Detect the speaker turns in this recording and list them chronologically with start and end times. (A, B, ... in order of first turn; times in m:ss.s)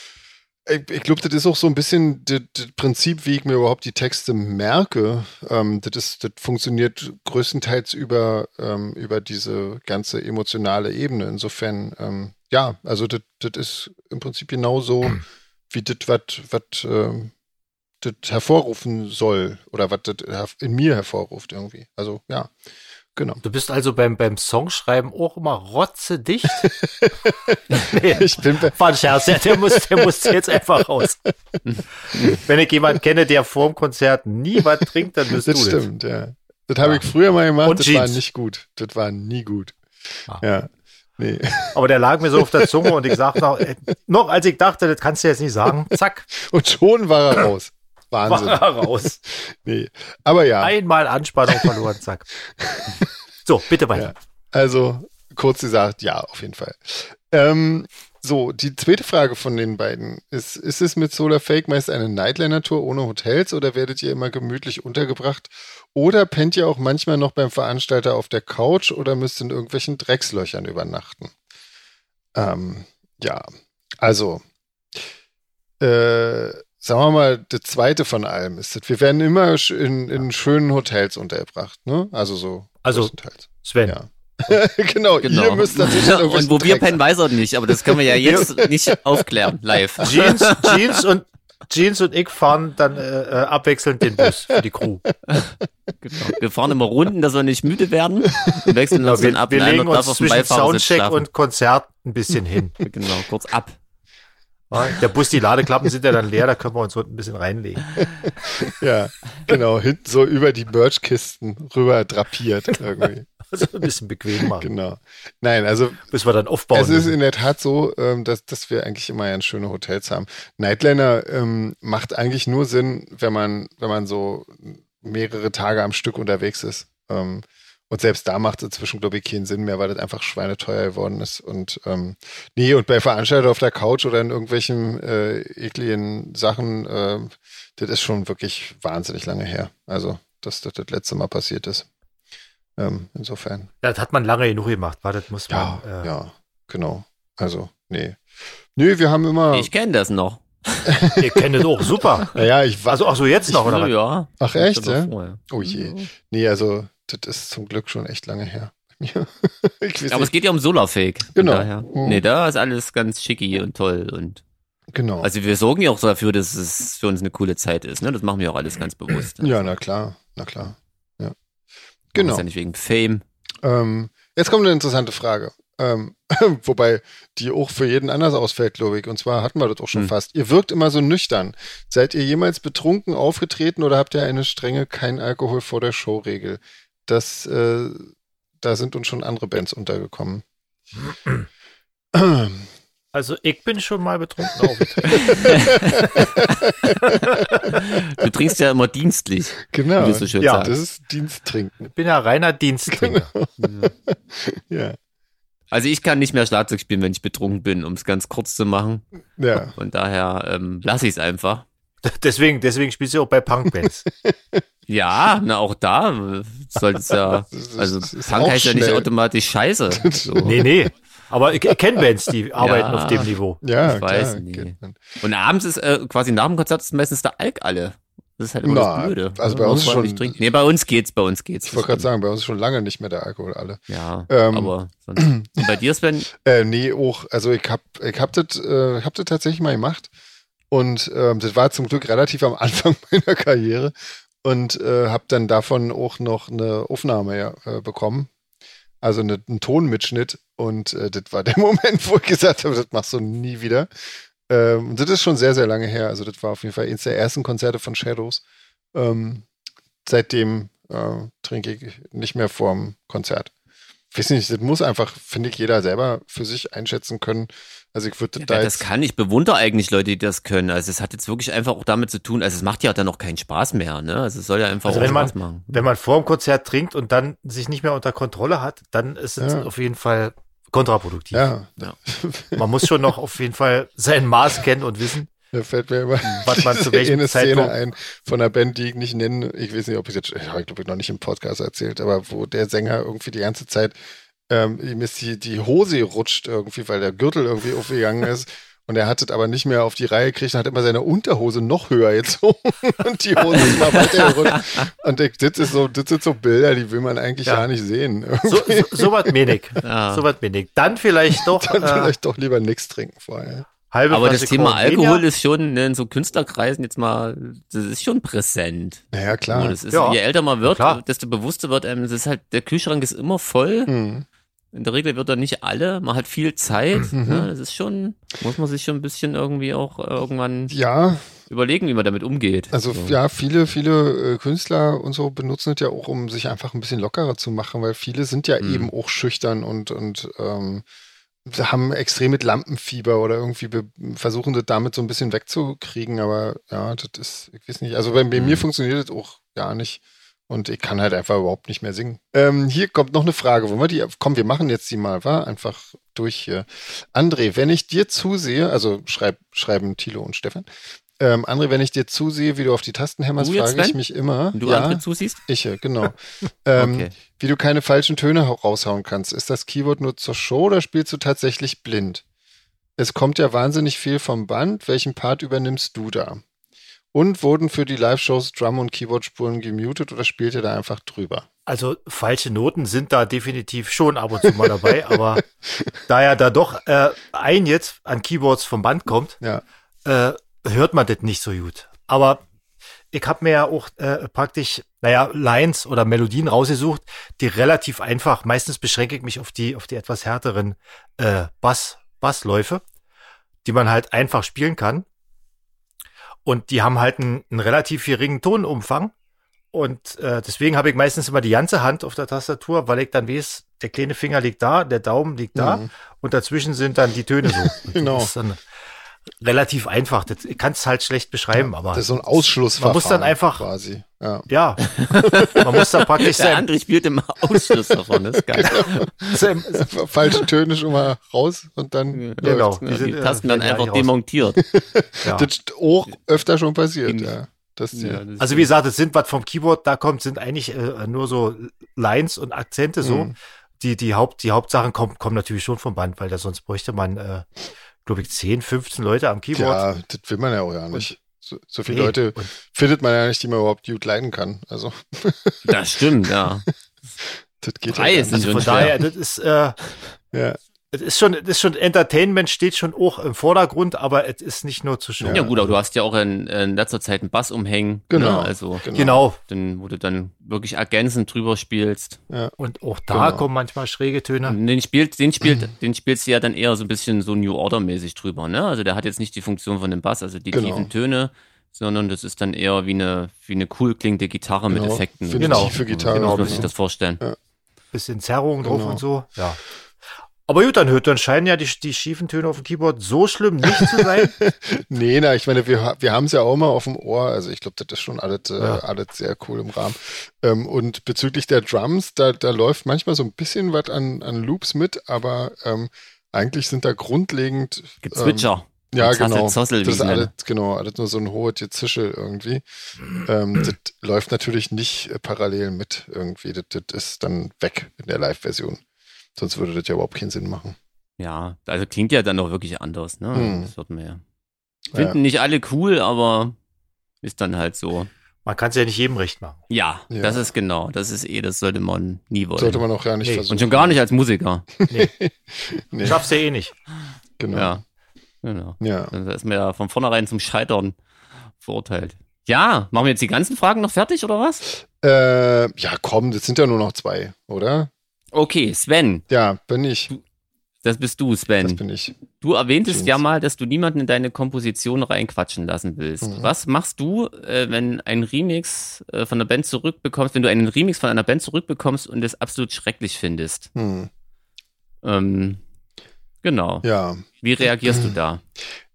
0:00.6-0:17.3 A
0:18.0-0:22.5 A
0:23.2-0:23.4 A
0:23.4-0:26.7 B
0:26.5-0:31.3 A
0:27.7-0:31.2 B
0:31.6-0:32.4 C
0:32.3-0:35.9 B
0:34.8-0:41.8 A
0:37.6-0:38.2 B
0:41.7-0:46.3 B
0:42.3-0:43.2 A
0:46.3-0:50.7 A
0:48.3-0:49.2 B
0:50.6-0:52.3 B
0:51.5-0:51.8 A
0:52.5-0:53.1 A
0:53.4-0:54.1 B
0:53.9-1:11.3 A
1:12.3-1:13.5 A
1:14.0-1:14.4 A
1:15.8-1:27.0 A
1:22.8-1:24.0 B
1:25.2-1:30.8 C
1:27.7-1:29.3 A
1:30.0-1:35.1 B
1:35.3-1:41.2 C
1:38.4-1:38.7 A
1:39.0-1:42.8 B
1:42.8-1:43.8 C
1:44.7-1:48.0 B
1:48.0-1:53.9 A
1:53.5-1:54.7 B
1:54.4-1:56.1 A
1:56.1-1:57.2 B
1:56.7-2:21.9 A
2:22.8-2:23.7 A
2:23.8-2:26.1 B
2:25.5-2:28.2 A
2:28.7-2:29.7 A
2:29.5-2:31.2 C
2:30.9-2:31.5 A
2:31.2-2:32.3 B
2:32.3-2:33.6 A
2:32.9-2:33.9 B
2:33.6-2:36.1 C
2:34.4-2:40.3 A
2:40.1-2:44.4 C
2:41.3-2:42.2 A
2:44.9-2:45.3 A
2:45.2-2:49.7 C
2:49.4-2:51.3 A
2:52.1-2:52.4 A
2:52.2-2:53.2 C
2:53.6-3:10.4 A
3:12.1-3:12.7 A
3:13.1-3:15.6 B
3:14.6-3:17.8 A
3:15.2-3:16.2 C
3:17.1-3:20.7 C
3:19.7-3:21.9 A
3:20.4-3:20.7 B
3:21.9-3:23.3 B
3:22.9-3:25.0 A
3:23.6-3:23.9 C
3:25.7-3:31.6 C
3:29.4-3:29.7 A
3:32.0-3:34.0 B
3:33.7-3:34.6 A
3:34.9-3:40.6 C
3:37.3-3:39.1 A
3:39.9-3:40.7 A
3:40.4-3:43.6 B
3:42.6-3:43.3 C
3:43.6-3:45.2 A
3:43.8-3:52.1 C
3:48.6-3:50.4 A
3:51.6-3:55.6 A
3:53.9-3:56.3 C
3:56.3-4:00.1 A
4:00.7-4:08.3 A
4:09.0-4:13.9 A
4:14.5-4:18.4 A
4:18.9-4:19.4 A
4:20.0-4:23.5 A
4:24.1-4:28.9 A
4:28.4-4:35.8 C
4:34.9-4:41.5 B
4:39.4-4:39.7 A
4:41.3-4:42.9 A
4:42.6-4:45.3 B
4:45.5-4:54.0 A
4:46.4-4:47.7 B
4:54.5-5:09.4 A
5:03.6-5:04.8 C
5:08.4-5:12.1 B
5:09.8-5:10.2 C
5:11.4-5:13.7 A
5:13.9-5:15.2 B
5:14.1-5:23.9 C
5:19.1-5:19.8 A
5:19.9-5:21.0 B
5:23.9-5:24.3 A
5:24.7-5:30.7 C
5:27.1-5:27.5 A
5:30.7-5:31.3 A
5:31.5-5:33.2 C
5:32.7-5:40.8 A
5:38.6-5:38.9 C
5:41.4-6:12.2 A
5:48.3-5:48.6 C
6:03.4-6:04.0 C
6:04.5-6:05.4 C
6:06.8-6:07.1 C
6:13.0-6:16.4 A
6:17.1-6:21.4 A
6:21.7-6:25.4 B
6:24.5-6:25.9 A
6:26.1-6:29.4 B
6:30.0-6:32.4 B
6:33.1-6:42.8 B
6:43.6-6:45.0 B
6:46.4-6:49.1 B
6:49.7-6:58.6 B
6:55.6-6:55.9 A
6:57.8-6:58.3 A
6:59.4-7:03.7 B
7:01.6-7:04.5 A
7:04.5-7:06.7 B
7:05.0-7:05.6 C
7:06.2-7:09.4 C
7:08.3-7:09.1 A
7:09.3-7:09.9 B
7:09.7-7:12.6 A
7:12.1-7:14.6 C
7:12.4-7:14.1 B
7:14.6-7:18.2 A
7:15.2-7:15.5 B
7:17.0-7:17.3 C
7:17.9-7:18.7 C
7:18.4-7:27.5 B
7:23.0-7:23.3 A
7:28.0-7:29.8 B
7:29.5-7:36.7 A
7:31.9-7:32.5 B
7:35.6-7:36.6 C
7:37.2-7:39.0 A
7:37.9-7:39.0 C
7:38.3-7:39.8 B
7:40.3-7:40.6 A
7:40.9-7:45.8 B
7:45.2-7:45.5 A
7:45.3-7:48.8 C
7:48.1-7:49.2 A
7:48.9-7:49.4 B
7:49.5-7:52.2 C
7:52.6-7:54.6 B
7:53.1-7:53.4 A
7:54.4-8:07.2 C
7:55.4-7:55.7 A
8:00.5-8:00.9 A
8:04.7-8:06.7 A
8:05.4-8:06.7 B
8:07.9-8:09.6 B
8:08.6-8:09.0 A
8:10.5-8:14.4 B
8:13.7-8:32.6 A
8:28.0-8:30.3 C
8:33.1-8:38.8 A
8:39.4-8:40.8 A
8:41.2-8:44.2 C
8:43.3-8:43.7 A
8:44.9-8:45.2 A
8:44.9-8:46.6 C
8:47.2-8:48.1 C
8:48.4-8:49.6 B
8:49.7-8:52.8 C
8:50.1-8:50.5 A
8:52.6-8:54.0 A
8:53.2-8:53.5 B
8:53.5-8:54.7 C
8:54.8-8:56.3 A
8:56.0-8:56.7 B
8:57.4-8:57.8 A
8:57.5-8:57.8 C
8:58.4-9:01.0 C
8:58.8-8:59.1 A
9:01.6-9:04.6 C
9:04.9-9:07.9 A
9:08.3-9:09.2 C
9:09.3-9:10.1 A
9:10.8-9:11.8 C
9:11.6-9:12.2 A
9:12.4-9:23.7 C
9:12.9-9:13.2 A
9:16.2-9:16.5 A
9:23.7-9:24.1 A
9:25.0-9:25.6 C
9:26.4-9:26.9 C
9:26.8-9:28.2 A
9:27.4-9:28.4 C